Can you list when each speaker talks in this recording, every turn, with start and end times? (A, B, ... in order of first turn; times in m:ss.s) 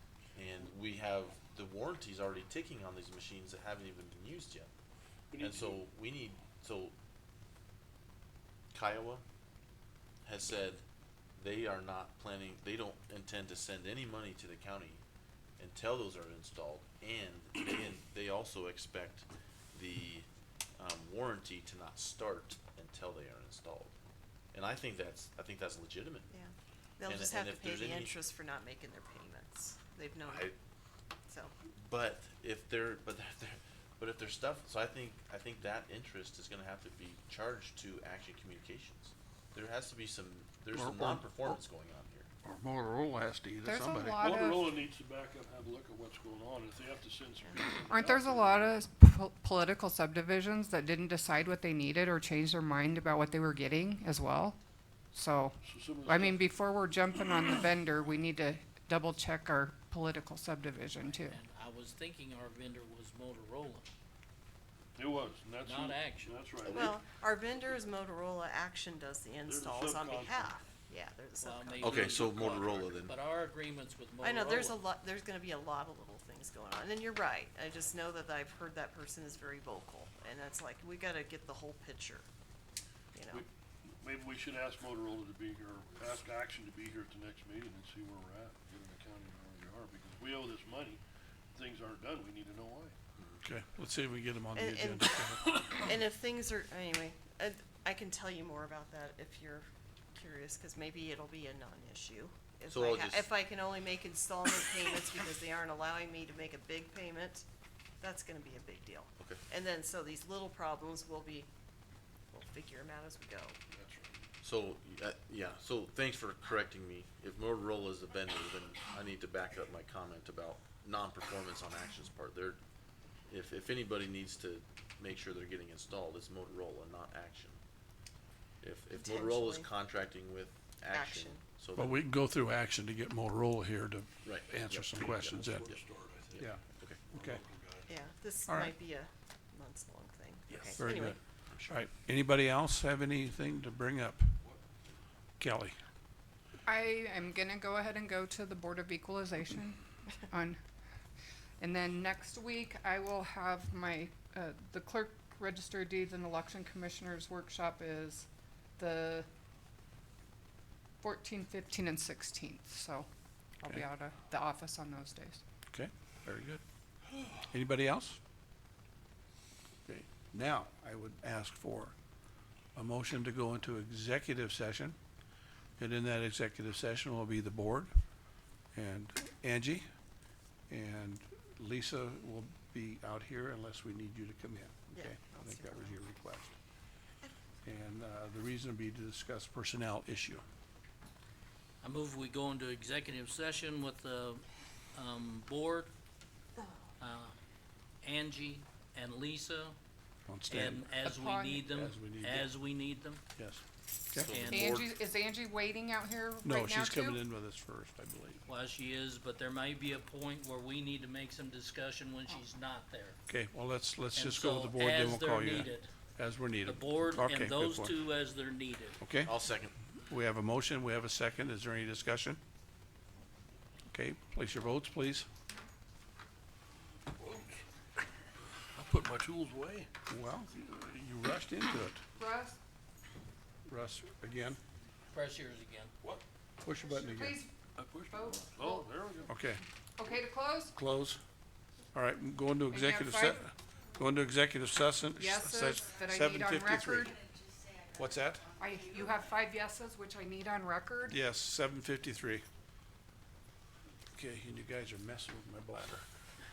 0:00.4-0:04.7 A
0:05.3-0:05.8 B
0:05.4-0:07.0 A
0:08.7-0:09.2 A
0:10.2-0:10.8 A
0:11.4-0:15.0 A
0:15.6-0:23.9 A
0:24.5-0:26.3 A
0:26.3-0:30.5 C
0:27.1-0:28.2 A
0:30.2-0:30.5 A
0:31.3-0:31.5 C
0:31.7-0:42.3 A
0:40.7-0:41.6 D
0:42.4-0:44.5 D
0:43.6-0:44.7 E
0:44.2-0:48.8 B
0:47.4-0:47.7 C
0:47.9-0:54.6 E
0:55.1-1:01.4 E
0:55.6-0:56.5 B
1:01.0-1:03.9 F
1:05.0-1:06.9 B
1:05.6-1:06.4 F
1:06.6-1:07.0 A
1:06.7-1:12.2 C
1:09.4-1:10.5 B
1:11.4-1:14.8 F
1:11.8-1:13.2 A
1:14.2-1:22.3 C
1:23.1-1:23.4 C
1:23.3-1:31.0 B
1:31.5-1:33.0 B
1:33.2-1:33.4 A
1:33.4-1:35.5 D
1:34.6-1:47.4 C
1:42.7-1:43.3 A
1:48.0-1:51.5 C
1:49.2-1:49.4 A
1:52.3-1:53.6 C
1:53.7-1:54.2 B
1:54.4-2:02.6 A
2:03.3-2:07.6 A
2:08.6-2:12.0 A
2:08.9-2:09.7 C
2:10.9-2:11.4 C
2:11.8-2:15.7 D
2:14.2-2:17.0 A
2:15.3-2:16.5 B
2:17.1-2:17.9 B
2:17.1-2:17.4 D
2:17.9-2:21.2 C
2:18.5-2:18.7 D
2:20.5-2:20.8 B
2:20.8-2:24.4 D
2:25.4-2:25.8 D
2:26.7-2:30.6 E
2:31.6-2:39.3 E
2:41.0-2:43.1 E
2:43.6-2:45.4 E
2:45.7-2:46.6 D
2:47.4-2:48.2 D
2:49.9-2:52.0 D
2:52.8-2:55.0 D
2:55.8-2:57.9 D
2:58.8-2:59.9 D
3:00.7-3:06.6 D
3:04.9-3:05.9 C
3:07.6-3:10.4 D
3:11.8-3:15.9 F
3:17.0-3:17.4 F
3:18.0-3:19.8 F
3:20.3-3:20.9 D
3:20.5-3:23.2 F
3:20.9-3:21.7 E
3:21.7-3:22.6 D
3:23.4-3:24.3 D
3:24.2-3:24.9 A
3:24.3-3:24.7 F
3:24.5-3:27.2 E
3:26.4-3:28.4 D
3:28.5-3:33.2 F
3:33.3-3:38.0 D
3:34.1-3:35.9 F
3:36.6-3:39.0 F
3:39.0-3:39.4 D
3:39.2-3:39.7 A
3:40.0-3:42.4 D
3:43.9-3:45.3 D
3:47.1-3:47.7 B
3:48.7-3:49.9 B
3:50.1-3:52.0 D
3:52.2-3:52.6 E
3:53.7-3:54.6 D
3:55.1-3:55.9 F
3:56.6-3:57.4 D
3:56.8-3:58.9 E
3:57.8-3:59.3 B
3:59.3-3:59.6 D
4:00.0-4:00.8 E
4:00.7-4:01.2 D
4:01.9-4:07.2 D
4:02.7-4:03.5 E
4:05.2-4:07.2 E
4:07.9-4:08.5 D
4:08.6-4:11.2 E
4:11.1-4:12.5 D
4:14.1-4:15.9 D
4:15.7-4:16.0 A